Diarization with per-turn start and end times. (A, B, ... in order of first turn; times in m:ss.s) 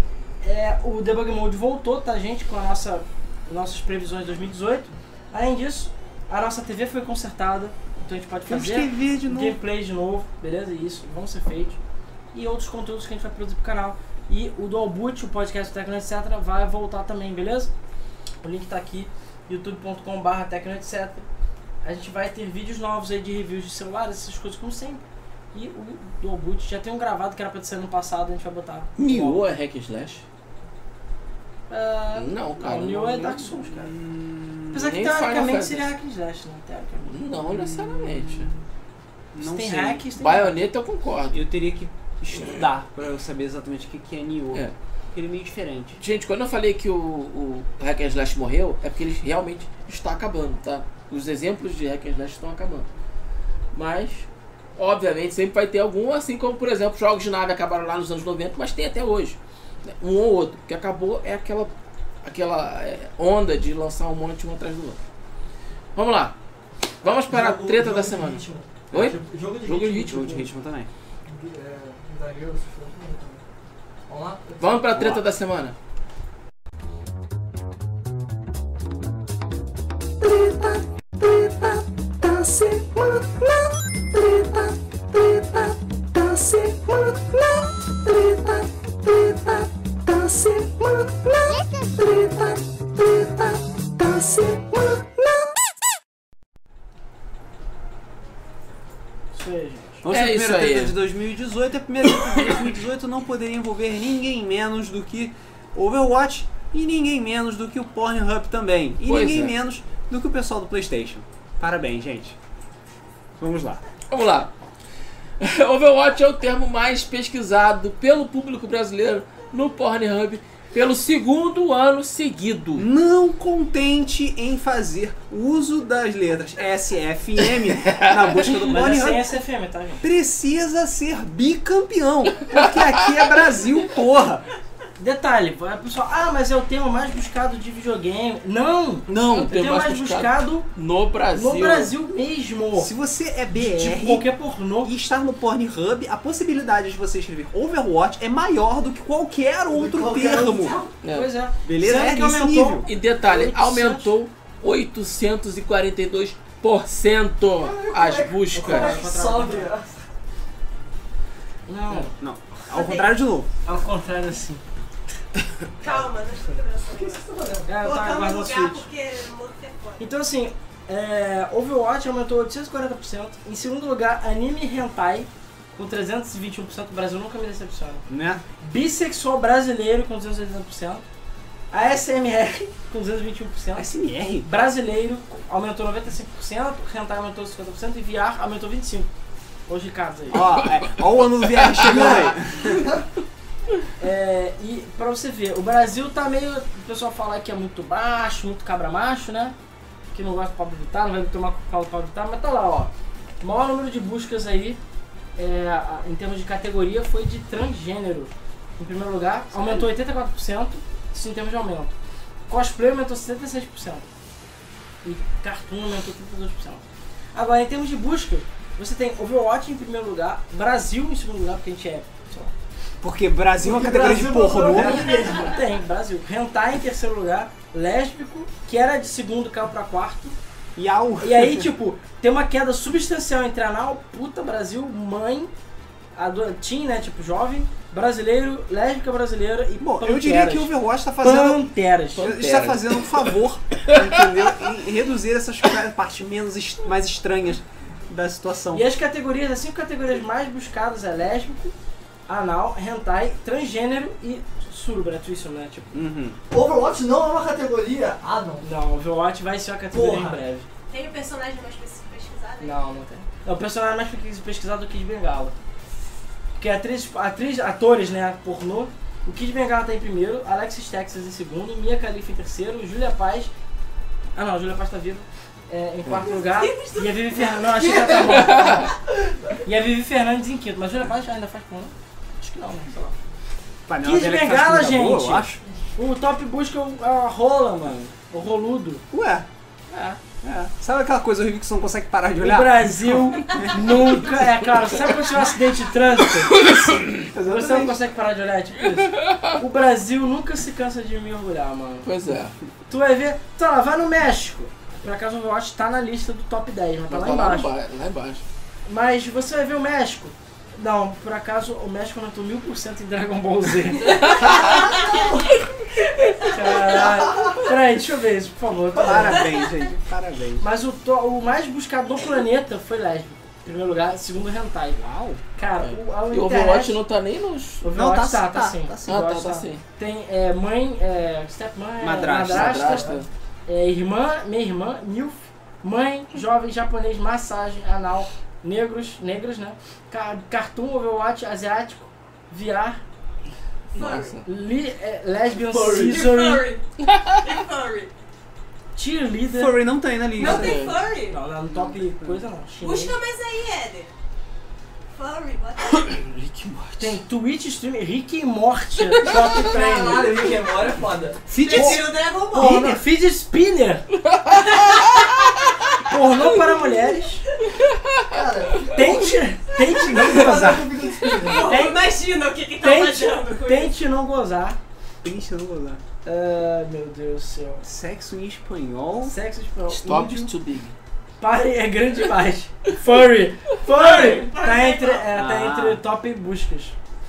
0:00.4-0:11.8 A
0:08.5-0:09.6 B
0:12.3-0:17.7 A
0:18.4-0:21.2 A
0:21.8-0:25.0 A
0:25.5-0:29.4 A
0:29.0-0:30.2 C
0:31.7-0:33.9 A
0:32.1-0:33.4 C
0:33.4-0:34.7 B
0:34.7-0:37.2 A
0:34.7-0:35.9 C
0:37.1-0:38.5 C
0:37.4-0:38.6 B
0:39.3-0:40.0 B
0:39.4-0:40.6 A
0:40.2-0:41.4 C
0:41.3-0:46.0 B
0:42.3-0:42.6 C
0:46.0-0:52.9 C
0:53.7-1:01.7 C
1:02.2-1:05.0 C
1:05.9-1:06.4 C
1:07.0-1:10.5 C
1:07.1-1:10.4 D
1:10.0-1:10.9 B
1:11.3-1:13.4 D
1:14.1-1:14.8 D
1:14.6-1:15.8 C
1:14.9-1:15.2 B
1:20.2-1:35.3 E
1:39.3-1:40.0 A
1:40.0-1:52.4 B
1:40.1-1:41.0 C
1:49.0-1:49.5 C
1:53.4-1:53.8 B
1:54.1-1:54.5 C
1:55.4-2:02.9 C
2:02.8-2:09.4 B
2:07.8-2:08.5 C
2:08.6-2:10.0 A
2:10.0-2:14.4 B
2:12.5-2:13.2 C
2:15.0-2:20.7 A
2:19.1-2:21.9 C
2:19.1-2:19.5 B
2:21.3-2:22.9 A
2:22.7-2:24.3 B
2:23.5-2:24.9 A
2:24.8-2:30.8 B
2:29.7-2:30.9 D
2:31.0-2:31.3 C
2:31.1-2:34.1 A
2:31.6-2:32.9 B
2:32.9-2:39.0 C
2:37.6-2:39.9 D
2:38.5-2:39.7 A
2:41.7-2:42.1 A
2:41.9-2:43.5 B
2:42.7-2:43.1 F
2:43.6-2:44.6 A
2:45.8-2:47.2 F
2:46.9-2:47.8 D
2:47.7-2:48.9 A
2:47.8-2:50.1 F
2:50.0-2:58.0 A
2:58.1-2:58.4 B
2:58.6-3:01.0 A
3:01.7-3:09.1 A
3:03.8-3:04.5 B
3:09.7-3:10.5 A
3:10.3-3:12.9 B
3:11.8-3:13.0 D
3:14.0-3:19.6 A
3:20.1-3:24.8 A
3:25.4-3:32.0 A
3:32.5-3:34.0 A
3:35.0-3:42.5 A
3:43.0-3:45.1 B
3:43.6-3:45.5 D
3:43.9-3:50.4 A
3:50.8-3:51.7 B
3:51.2-3:55.5 A
3:56.1-4:02.3 A
3:59.8-4:08.8 B
4:02.2-4:03.3 C
4:03.9-4:04.2 C
4:08.7-4:11.7 A
4:12.3-4:16.0 A
4:15.9-4:16.4 B
4:16.5-4:18.6 D
4:18.6-4:20.7 A
4:19.9-4:20.4 D
4:20.9-4:22.8 F
4:22.6-4:25.6 A
4:26.6-4:33.5 A
4:34.4-4:39.0 A
4:36.3-4:38.2 F
4:38.3-4:38.9 C
4:39.6-4:43.2 A
4:43.9-4:45.6 B
4:44.0-4:49.0 A
4:49.1-4:49.4 B
4:49.9-4:50.2 A
4:50.4-4:54.1 B
4:52.4-4:56.6 A
4:56.5-4:57.1 C
4:57.3-4:58.0 B
4:57.4-5:02.1 A
4:59.2-4:59.5 C
5:02.0-5:02.6 C
5:02.9-5:07.7 A
5:07.1-5:08.4 C
5:08.8-5:14.5 A
5:14.3-5:15.3 F
5:15.1-5:15.4 D
5:16.0-5:17.2 F
5:16.4-5:19.5 A
5:17.0-5:17.5 D
5:19.0-5:20.7 B
5:20.6-5:25.0 A
5:25.0-5:25.4 B
5:25.6-5:27.0 A
5:25.8-5:27.8 C
5:27.8-5:43.0 A
5:27.8-5:29.4 B
5:29.1-5:29.8 C
5:32.0-5:33.0 B
5:32.5-5:33.3 C
5:43.9-5:44.4 C
5:43.9-5:44.4 F
5:44.4-5:46.7 A
5:45.6-5:46.2 D
5:46.0-5:46.8 F
5:47.1-5:47.4 C
5:47.4-5:48.1 F
5:48.9-5:49.8 A
5:49.5-5:50.9 B
5:50.4-5:51.4 F
5:50.4-5:51.0 C
5:51.3-5:53.2 A
5:51.7-5:52.4 B
5:52.8-5:54.1 F
5:55.1-5:56.2 F
5:55.9-5:57.2 C
5:57.0-6:00.4 A
5:59.2-5:59.4 C
5:59.3-6:02.0 D
6:01.5-6:02.9 F
6:01.5-6:04.1 A
6:02.7-6:03.0 D
6:04.3-6:05.2 C
6:04.5-6:05.2 F
6:06.0-6:07.4 A
6:08.0-6:08.4 C
6:08.3-6:09.2 D
6:08.9-6:10.9 A
6:10.0-6:11.7 D
6:11.3-6:13.9 F
6:11.5-6:12.0 A
6:12.8-6:14.8 A
6:15.2-6:16.0 B
6:16.2-6:17.8 A
6:17.8-6:19.4 B
6:19.3-6:20.5 A
6:19.9-6:20.9 C
6:21.4-6:27.0 A
6:23.9-6:25.3 F
6:25.3-6:26.0 B